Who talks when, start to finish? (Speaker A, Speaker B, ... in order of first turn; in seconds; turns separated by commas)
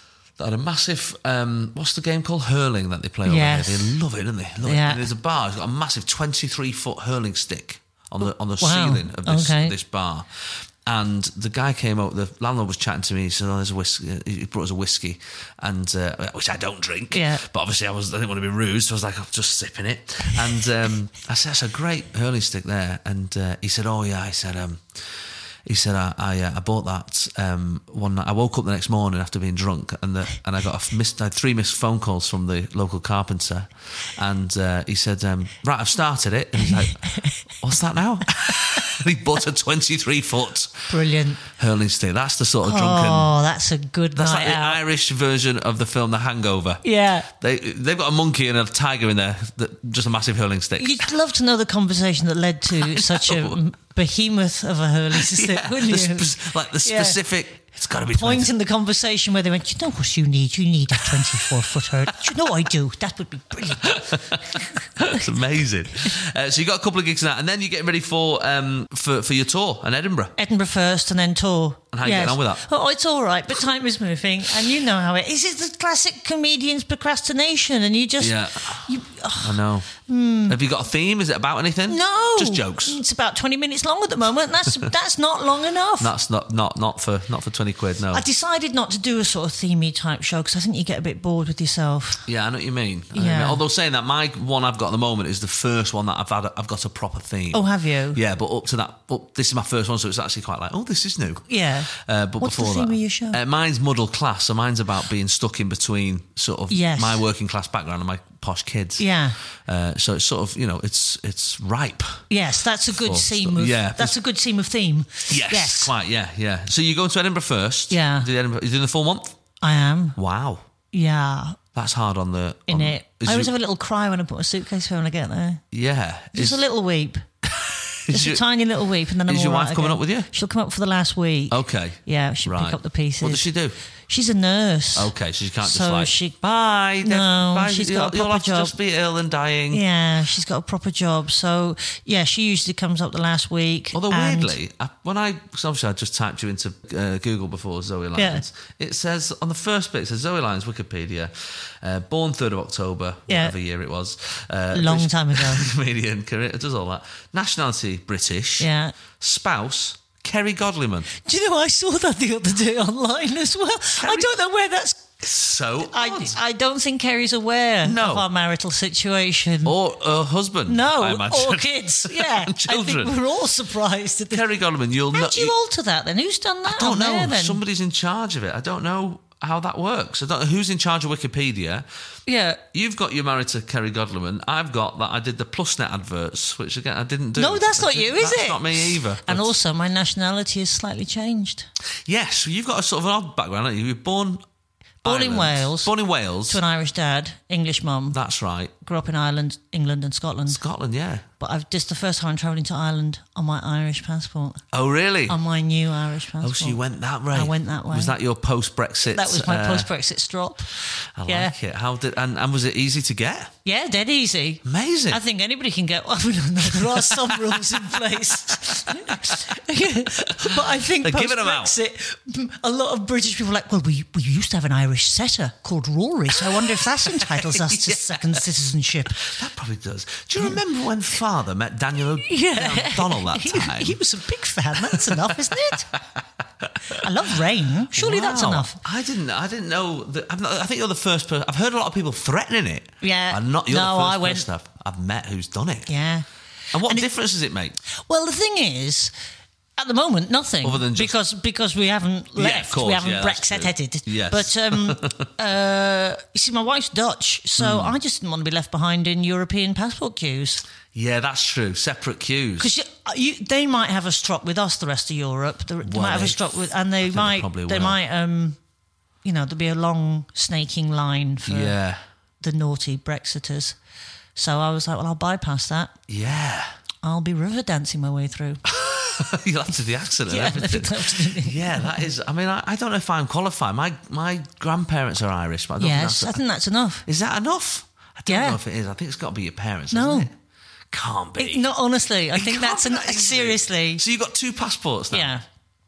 Speaker A: 0.4-40.9, Speaker B: 3.2-4.0, Speaker B: 4.6-5.0, Speaker B: 8.6-9.7, Speaker B: 17.1-17.4, Speaker B: 36.6-37.4, Speaker B: 40.9-41.4, Speaker A: 41.4-43.3, Speaker B: 42.6-44.8, Speaker A: 44.1-51.0, Speaker B: 46.8-47.3, Speaker B: 50.8-57.2, Speaker A: 52.7-53.6, Speaker A: 55.1-58.5, Speaker B: 58.1-65.3, Speaker A: 63.8-70.3, Speaker B: 70.4-80.6, Speaker A: 71.9-72.6, Speaker A: 78.2-79.9, Speaker A: 80.5-83.0, Speaker B: 81.9-86.1, Speaker A: 86.0-88.2, Speaker B: 88.1-92.2, Speaker A: 92.3-112.2, Speaker B: 93.1-93.6, Speaker B: 97.5-98.2, Speaker B: 101.5-103.4, Speaker B: 106.7-107.2, Speaker B: 109.0-109.4, Speaker B: 112.3-115.9, Speaker A: 112.9-114.2, Speaker A: 115.3-119.4, Speaker B: 117.9-118.3, Speaker B: 119.6-120.2, Speaker A: 120.2-120.7, Speaker B: 120.9-121.6, Speaker A: 121.7-123.5, Speaker B: 122.7-125.6, Speaker A: 125.7-126.6, Speaker B: 126.3-127.2, Speaker A: 127.4-128.4, Speaker B: 128.1-133.5, Speaker A: 129.2-130.3, Speaker A: 131.5-133.8, Speaker B: 134.1-135.1, Speaker A: 134.9-139.8, Speaker B: 135.6-136.3, Speaker B: 137.0-138.7, Speaker B: 139.7-144.6, Speaker A: 143.9-161.1, Speaker B: 148.1-148.4, Speaker B: 153.3-153.5, Speaker B: 154.7-155.7, Speaker B: 158.6-158.9, Speaker B: 161.1-165.2, Speaker A: 163.9-164.3, Speaker A: 165.2-166.4, Speaker B: 165.8-169.7, Speaker A: 167.8-168.2, Speaker A: 169.6-173.1, Speaker B: 170.7-174.4, Speaker A: 174.3-175.5, Speaker B: 175.1-177.6, Speaker A: 176.7-181.8, Speaker B: 182.3-182.6, Speaker A: 182.7-189.5, Speaker B: 187.4-191.7, Speaker A: 192.1-194.4, Speaker B: 195.0-195.9, Speaker A: 195.0-196.6, Speaker B: 196.5-198.2, Speaker A: 198.1-198.7, Speaker B: 198.8-200.6, Speaker A: 200.5-201.2, Speaker B: 201.4-204.6, Speaker A: 204.7-205.4, Speaker B: 205.3-206.8, Speaker A: 206.4-209.9, Speaker B: 207.3-208.2, Speaker B: 209.1-211.5, Speaker A: 211.2-213.5, Speaker B: 213.6-229.3, Speaker A: 214.6-215.2, Speaker A: 216.6-221.7, Speaker A: 226.4-228.5, Speaker A: 229.1-234.0, Speaker B: 232.2-235.9, Speaker A: 234.7-237.1, Speaker B: 236.9-238.8, Speaker A: 237.9-245.9, Speaker B: 243.0-244.5, Speaker B: 245.9-247.1, Speaker A: 246.7-247.8, Speaker B: 248.0-249.1, Speaker B: 249.8-260.6, Speaker A: 250.6-251.2, Speaker A: 252.3-255.3, Speaker A: 257.6-258.0, Speaker A: 260.9-262.7, Speaker B: 262.6-268.6, Speaker A: 265.8-268.0, Speaker B: 269.2-271.8, Speaker A: 271.4-272.0, Speaker B: 272.4-273.8, Speaker B: 274.3-275.9, Speaker A: 276.1-276.7, Speaker B: 277.0-278.6, Speaker A: 278.7-286.4, Speaker B: 280.3-282.0, Speaker B: 285.8-287.1, Speaker A: 287.1-290.3, Speaker B: 288.3-288.6, Speaker B: 289.9-290.3, Speaker A: 290.9-291.7, Speaker B: 291.4-294.0, Speaker A: 292.3-295.3, Speaker B: 295.1-295.4